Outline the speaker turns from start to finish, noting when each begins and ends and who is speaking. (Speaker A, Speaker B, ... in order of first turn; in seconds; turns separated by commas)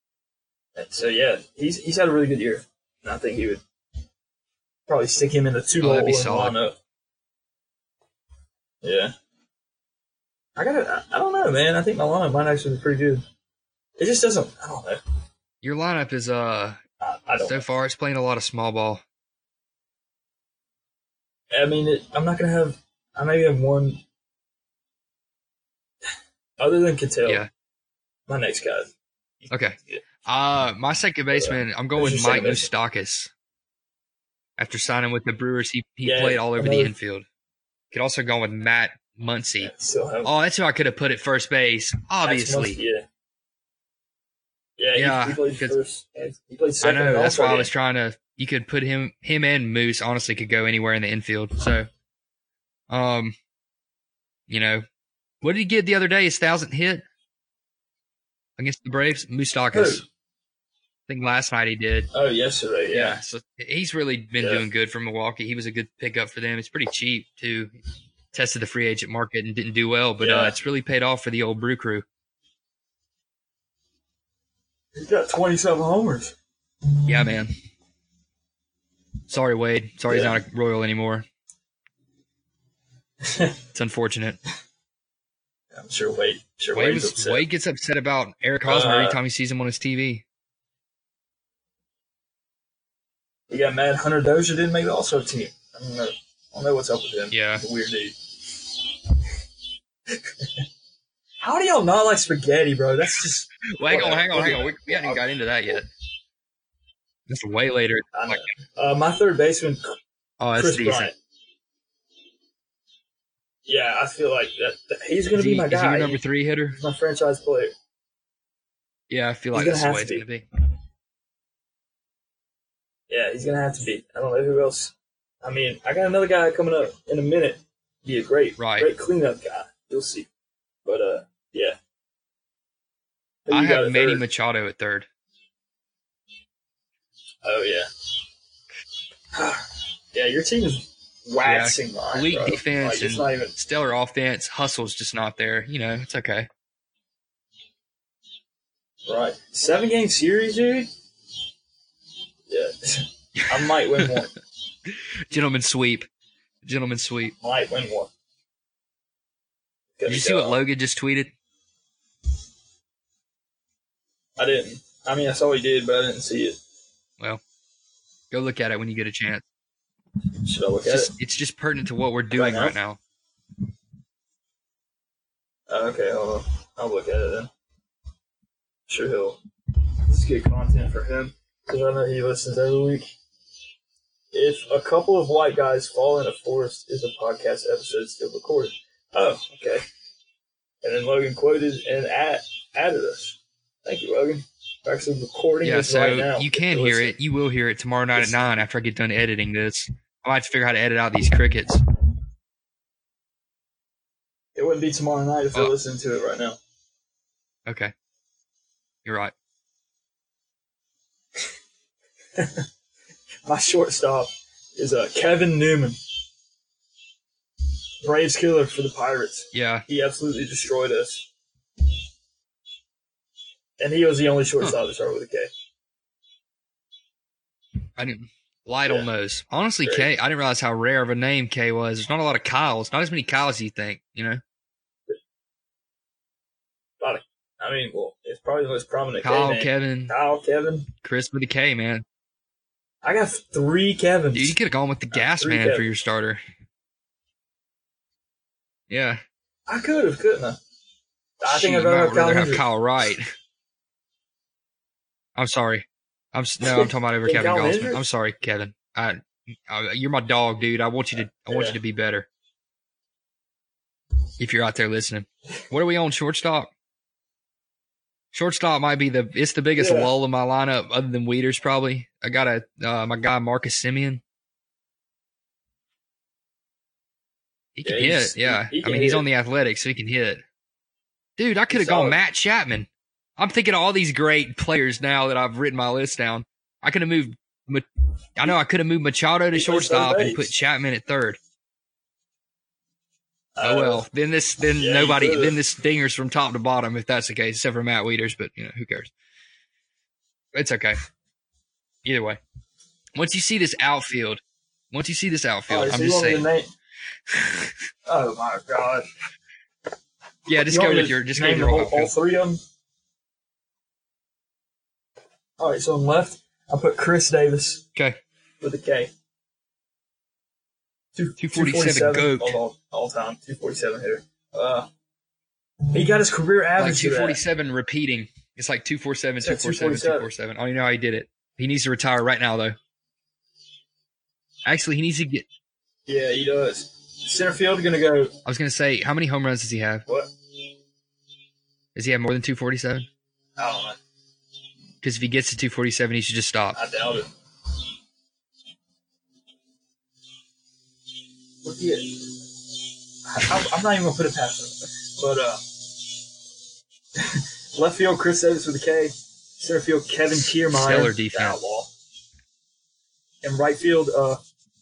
Speaker A: 0.8-3.6, Speaker A: 4.9-6.8, Speaker B: 5.8-6.6, Speaker A: 8.8-9.1, Speaker A: 10.6-13.2, Speaker A: 14.0-15.0, Speaker B: 15.6-16.8, Speaker A: 17.0-17.7, Speaker B: 17.4-19.0, Speaker A: 21.5-24.0, Speaker A: 26.6-27.4, Speaker A: 28.3-28.9, Speaker A: 29.4-30.0, Speaker B: 29.5-33.3, Speaker A: 31.3-32.7, Speaker B: 34.6-37.2, Speaker A: 36.0-36.9, Speaker B: 37.9-39.7, Speaker A: 39.6-40.3, Speaker B: 40.2-42.8, Speaker A: 42.2-43.1, Speaker A: 44.8-47.7, Speaker B: 45.0-45.8, Speaker B: 46.8-51.9, Speaker B: 52.9-53.4, Speaker B: 54.5-54.9, Speaker B: 55.4-57.0, Speaker B: 58.6-60.0, Speaker A: 59.7-60.0, Speaker B: 61.1-62.1, Speaker A: 62.1-63.2, Speaker B: 62.9-67.7, Speaker A: 64.4-64.7, Speaker B: 68.3-72.1, Speaker A: 70.2-70.6, Speaker A: 74.9-76.3, Speaker B: 77.1-77.5, Speaker B: 79.3-81.2, Speaker A: 80.1-80.4, Speaker A: 83.2-83.6, Speaker B: 83.7-84.4, Speaker A: 85.7-87.4, Speaker B: 86.7-90.2, Speaker A: 88.6-89.2, Speaker A: 93.5-98.9, Speaker B: 97.3-97.6, Speaker A: 100.1-100.6, Speaker A: 101.4-105.8, Speaker B: 103.6-105.9, Speaker B: 107.3-108.5, Speaker A: 108.1-110.0, Speaker B: 110.4-111.1, Speaker A: 110.6-111.1, Speaker A: 113.7-116.2, Speaker B: 115.3-116.8, Speaker A: 116.7-117.7, Speaker B: 119.1-120.4, Speaker A: 119.5-120.2, Speaker A: 123.1-130.3, Speaker B: 128.6-128.9, Speaker A: 130.8-131.8, Speaker A: 133.4-134.2, Speaker B: 133.5-135.1, Speaker A: 137.4-137.9, Speaker A: 139.3-143.5, Speaker B: 141.4-146.5, Speaker A: 149.1-150.9, Speaker A: 152.5-154.3, Speaker B: 153.4-154.1, Speaker B: 154.9-156.1, Speaker B: 156.6-157.3, Speaker A: 157.3-158.1, Speaker A: 159.9-160.6, Speaker B: 160.1-161.3, Speaker A: 164.4-166.6, Speaker B: 168.3-169.4, Speaker A: 170.4-171.1, Speaker B: 170.8-173.0, Speaker A: 172.3-172.8, Speaker A: 175.7-177.5, Speaker A: 178.9-179.4, Speaker A: 180.1-183.1, Speaker A: 184.3-189.8, Speaker A: 190.8-197.1, Speaker B: 195.6-201.8, Speaker A: 198.1-198.7, Speaker A: 204.6-206.6, Speaker B: 207.7-207.9, Speaker B: 209.1-209.3, Speaker A: 212.3-212.7, Speaker A: 213.4-216.0, Speaker A: 218.0-221.2, Speaker B: 219.5-219.9, Speaker A: 223.8-225.5, Speaker B: 228.0-234.4, Speaker A: 229.8-230.1, Speaker A: 237.0-240.9, Speaker B: 239.2-240.1, Speaker B: 241.0-242.1, Speaker A: 243.0-244.6, Speaker B: 244.3-246.4, Speaker A: 245.1-245.9, Speaker B: 248.9-249.2, Speaker A: 249.7-250.6, Speaker A: 251.4-252.7, Speaker B: 251.5-253.3, Speaker B: 255.4-262.3, Speaker A: 256.6-258.1, Speaker A: 261.5-261.8, Speaker B: 264.4-266.7, Speaker B: 268.3-274.2, Speaker A: 269.8-270.1, Speaker B: 277.8-280.4, Speaker A: 277.8-279.3, Speaker B: 281.4-291.4, Speaker A: 281.7-282.2, Speaker A: 289.5-290.5, Speaker A: 293.6-294.1, Speaker B: 293.6-299.1, Speaker A: 294.8-295.6, Speaker B: 300.6-301.0, Speaker B: 302.1-302.4, Speaker B: 303.1-306.5, Speaker A: 305.7-306.7, Speaker B: 307.3-307.7, Speaker A: 308.1-309.1, Speaker B: 310.5-312.1, Speaker A: 310.6-312.6, Speaker A: 315.6-317.8, Speaker A: 318.6-319.1, Speaker A: 321.1-324.9, Speaker B: 321.4-322.6, Speaker A: 325.9-327.4, Speaker B: 326.8-332.8, Speaker A: 329.4-330.3, Speaker B: 334.6-335.4, Speaker A: 336.1-338.4, Speaker B: 338.4-340.1, Speaker B: 341.9-343.1, Speaker A: 343.6-344.0, Speaker B: 345.0-346.8, Speaker A: 346.7-347.3, Speaker A: 351.6-352.4, Speaker A: 353.2-355.8, Speaker A: 357.1-361.9, Speaker B: 360.7-361.6, Speaker A: 363.4-364.4